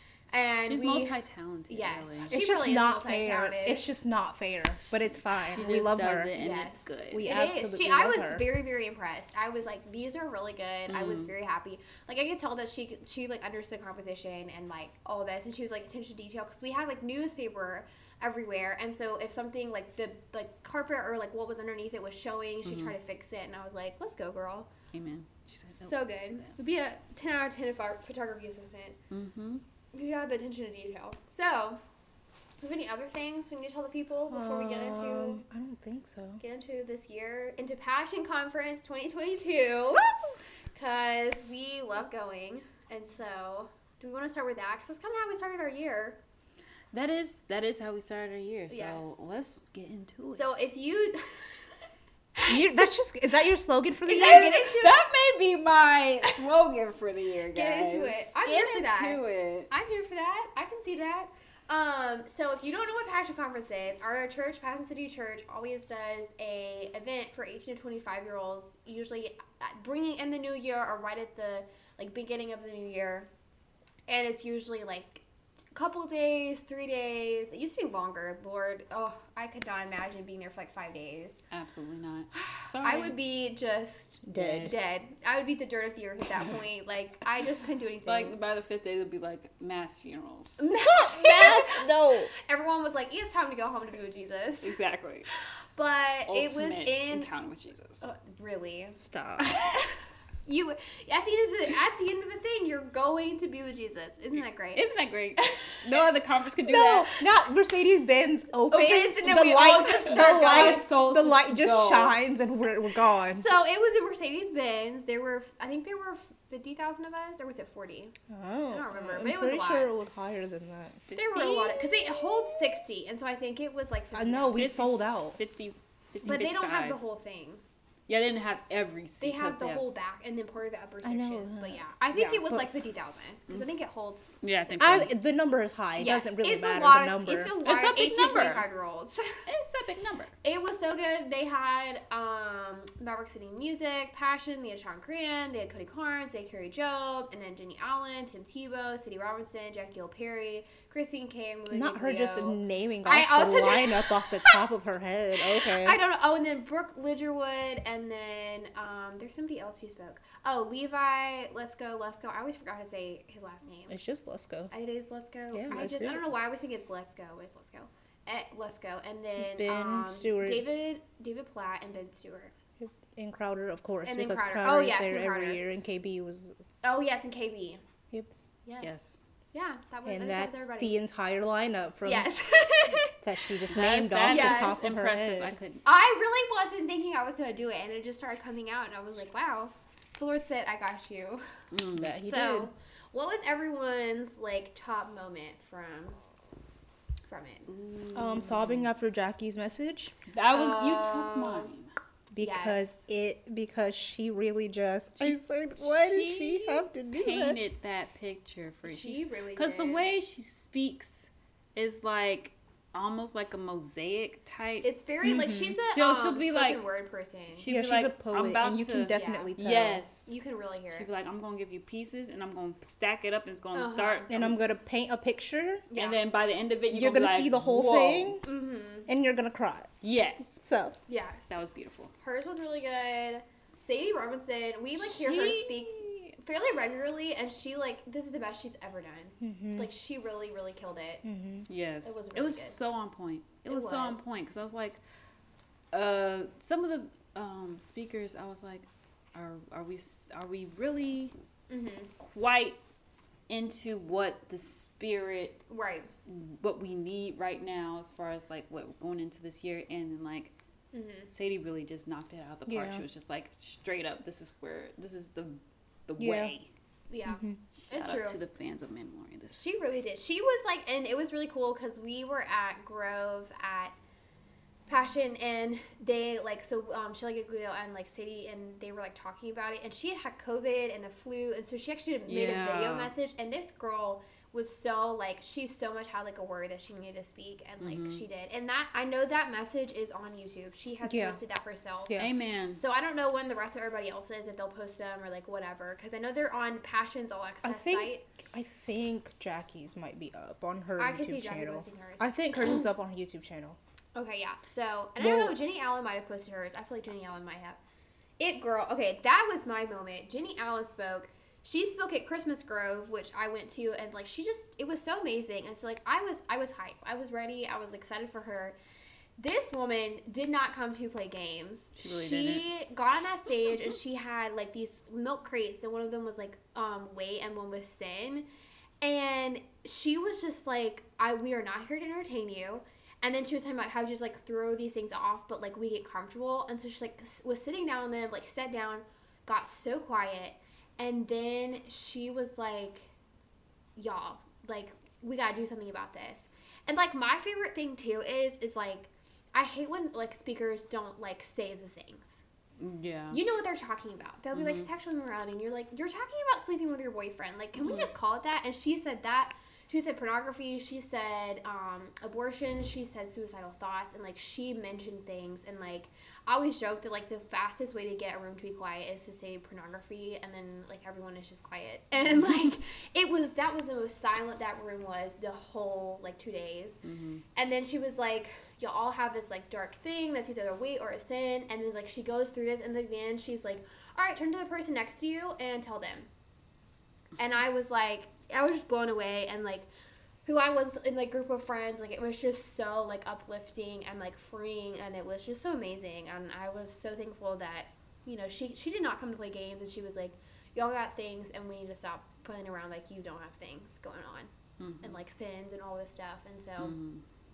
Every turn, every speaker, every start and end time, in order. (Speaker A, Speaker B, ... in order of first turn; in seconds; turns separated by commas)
Speaker A: 0.3-1.2, Speaker B: 0.7-2.4, Speaker A: 1.7-3.9, Speaker C: 2.3-6.3, Speaker B: 5.5-7.3, Speaker A: 6.3-24.7, Speaker C: 7.1-8.5, Speaker B: 10.9-11.3, Speaker B: 22.6-22.9, Speaker B: 24.9-26.5, Speaker A: 25.7-29.0, Speaker B: 29.1-29.6, Speaker A: 29.9-31.8, Speaker A: 32.6-35.4, Speaker C: 34.3-36.4, Speaker A: 36.4-40.2, Speaker A: 40.7-46.2, Speaker B: 46.9-50.5, Speaker A: 48.7-49.2, Speaker A: 50.3-51.6, Speaker A: 52.4-52.9, Speaker C: 52.5-54.7, Speaker A: 54.0-55.0, Speaker B: 54.2-59.7, Speaker A: 57.5-73.3, Speaker A: 74.1-81.4, Speaker B: 81.5-83.2, Speaker A: 82.3-88.3, Speaker C: 84.2-84.7, Speaker B: 84.3-84.8, Speaker B: 88.1-90.6, Speaker A: 90.6-94.8, Speaker C: 90.9-92.3, Speaker B: 94.6-95.3, Speaker A: 95.8-97.3, Speaker B: 96.3-98.0, Speaker A: 98.0-99.0, Speaker C: 99.0-99.5, Speaker B: 99.4-99.8, Speaker A: 100.5-104.8, Speaker B: 104.7-107.2, Speaker A: 105.4-106.0, Speaker C: 106.7-113.4, Speaker A: 108.7-110.9, Speaker B: 109.9-112.2, Speaker A: 113.3-118.2, Speaker C: 118.3-121.0, Speaker A: 118.7-119.9, Speaker B: 121.1-121.9, Speaker A: 121.1-124.6, Speaker C: 124.1-125.4, Speaker B: 124.5-127.0, Speaker A: 126.2-127.6, Speaker B: 128.1-129.8, Speaker A: 129.2-135.1, Speaker C: 131.0-131.8, Speaker B: 132.1-132.5, Speaker B: 134.4-135.1, Speaker C: 134.8-137.6, Speaker A: 136.0-139.4, Speaker B: 137.6-138.7, Speaker B: 139.5-140.3, Speaker A: 140.4-154.6, Speaker C: 151.7-156.0, Speaker A: 155.6-164.0, Speaker C: 163.9-164.7, Speaker A: 164.7-172.5, Speaker C: 165.5-166.3, Speaker C: 169.4-170.7, Speaker C: 172.8-176.5, Speaker A: 174.1-175.6, Speaker A: 176.8-177.8, Speaker A: 178.7-179.0, Speaker B: 178.8-179.2, Speaker A: 179.5-181.0, Speaker C: 180.1-182.3, Speaker A: 182.1-183.2, Speaker C: 183.2-185.6, Speaker B: 183.7-185.8, Speaker A: 184.2-184.8, Speaker A: 185.8-191.4, Speaker B: 191.7-192.2, Speaker C: 192.0-192.7, Speaker A: 192.2-196.2, Speaker A: 197.3-197.7, Speaker B: 197.7-198.9, Speaker C: 198.2-200.2, Speaker B: 200.3-201.9, Speaker A: 200.5-201.7, Speaker C: 202.3-207.6, Speaker A: 202.4-203.0, Speaker B: 205.2-214.9, Speaker A: 208.8-210.1, Speaker A: 214.8-217.7, Speaker C: 215.2-215.8, Speaker B: 215.9-216.8, Speaker B: 217.6-220.3, Speaker C: 217.7-220.0, Speaker A: 219.1-219.5, Speaker A: 220.3-221.1, Speaker B: 220.9-224.5, Speaker A: 223.8-224.3, Speaker C: 224.3-225.9, Speaker A: 225.9-226.2, Speaker B: 226.0-228.4, Speaker C: 226.9-228.4, Speaker A: 228.4-229.1, Speaker C: 229.1-229.9, Speaker B: 230.0-230.6, Speaker C: 230.6-231.0, Speaker A: 231.1-231.6, Speaker B: 231.5-232.1, Speaker A: 232.2-241.2, Speaker B: 235.0-236.3, Speaker C: 239.4-239.9, Speaker C: 241.2-241.7, Speaker B: 241.7-245.0, Speaker A: 242.0-242.8, Speaker A: 243.7-244.2, Speaker B: 245.9-251.3, Speaker A: 251.7-252.1, Speaker B: 252.2-252.8, Speaker B: 253.5-255.6, Speaker A: 255.7-256.1, Speaker B: 256.3-260.5, Speaker A: 260.9-261.3, Speaker B: 261.3-266.7, Speaker C: 262.7-263.0, Speaker C: 266.2-266.5, Speaker A: 267.1-268.4, Speaker C: 267.3-267.6, Speaker B: 267.7-269.8, Speaker A: 269.5-273.9, Speaker A: 274.9-292.2, Speaker B: 282.3-283.1, Speaker B: 287.8-288.2, Speaker C: 291.0-291.4, Speaker B: 292.2-292.8, Speaker A: 292.8-298.2, Speaker C: 297.6-303.8, Speaker A: 301.0-302.9, Speaker A: 304.1-307.8, Speaker C: 305.2-305.6, Speaker A: 308.4-318.8, Speaker A: 319.4-328.5, Speaker B: 322.0-322.7, Speaker A: 329.0-343.1, Speaker A: 344.0-352.4, Speaker B: 352.8-353.4, Speaker A: 353.3-377.0, Speaker B: 354.5-354.9, Speaker B: 357.8-358.1, Speaker B: 372.3-372.7, Speaker B: 377.0-377.4, Speaker A: 377.6-386.3, Speaker A: 387.4-389.9, Speaker A: 390.4-404.5, Speaker B: 404.8-405.2, Speaker A: 405.0-407.0, Speaker B: 406.8-407.2